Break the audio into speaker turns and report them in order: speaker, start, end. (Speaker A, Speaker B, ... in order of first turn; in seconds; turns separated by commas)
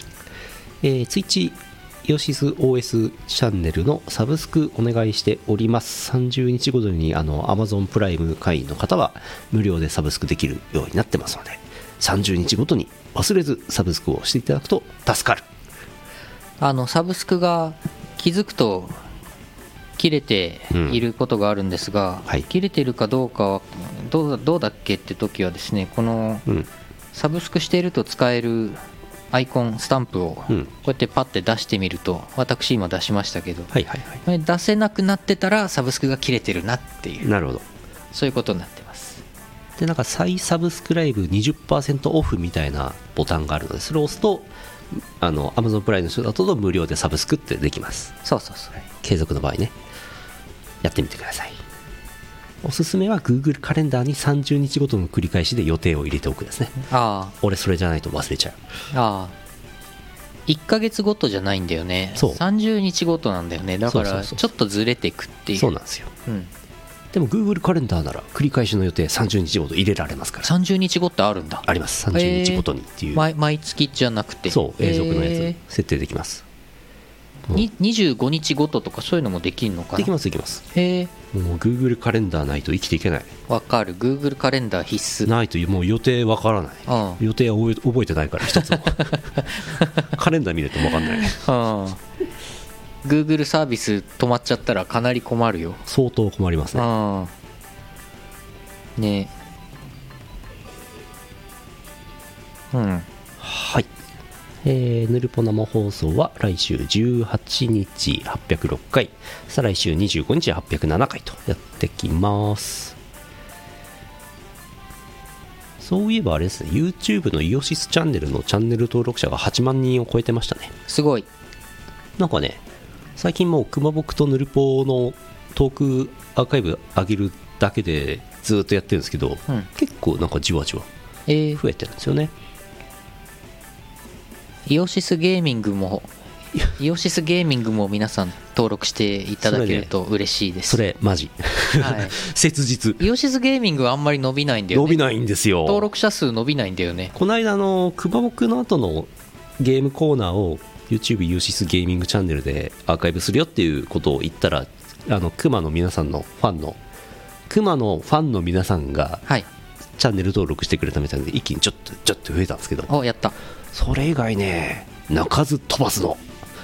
Speaker A: 0.8-15.4, Speaker B: 16.6-18.9, Speaker B: 20.0-26.4, Speaker A: 20.7-21.0, Speaker B: 27.1-28.8, Speaker B: 29.3-33.7, Speaker A: 33.7-34.2, Speaker B: 34.2-37.3, Speaker A: 37.2-37.6, Speaker B: 38.1-39.2, Speaker A: 39.8-48.1, Speaker B: 48.2-48.8, Speaker A: 49.0-49.7, Speaker A: 50.8-51.6, Speaker A: 52.6-56.8, Speaker B: 56.8-57.3, Speaker A: 57.4-58.6, Speaker B: 58.9-59.3, Speaker B: 60.5-65.7, Speaker A: 62.1-62.4, Speaker A: 63.9-64.5, Speaker A: 65.5-66.1, Speaker A: 67.1-70.5, Speaker B: 70.4-75.6, Speaker A: 71.6-73.2, Speaker A: 74.5-76.4, Speaker B: 77.5-80.1, Speaker A: 80.0-80.6, Speaker B: 80.7-81.1, Speaker A: 81.3-83.3, Speaker B: 83.5-85.3, Speaker A: 85.2-89.1, Speaker B: 86.9-87.2, Speaker B: 88.6-90.0, Speaker A: 90.1-91.4, Speaker B: 91.1-92.0, Speaker B: 93.0-95.8, Speaker A: 95.8-96.8, Speaker B: 96.7-97.3, Speaker B: 99.0-99.3, Speaker B: 102.7-103.0, Speaker A: 103.4-103.9, Speaker A: 104.6-113.0, Speaker A: 115.8-120.7, Speaker B: 120.9-121.3, Speaker A: 122.2-122.6, Speaker A: 123.2-130.9, Speaker B: 131.3-131.6, Speaker A: 131.6-132.3, Speaker B: 134.7-136.1, Speaker B: 136.6-140.8, Speaker A: 139.4-139.9, Speaker A: 140.7-143.0, Speaker B: 141.8-142.2, Speaker B: 143.0-145.0, Speaker A: 144.7-145.9, Speaker B: 145.6-147.1, Speaker A: 147.1-156.8, Speaker A: 157.5-159.2, Speaker A: 160.0-162.9, Speaker B: 162.9-163.3, Speaker A: 163.7-166.2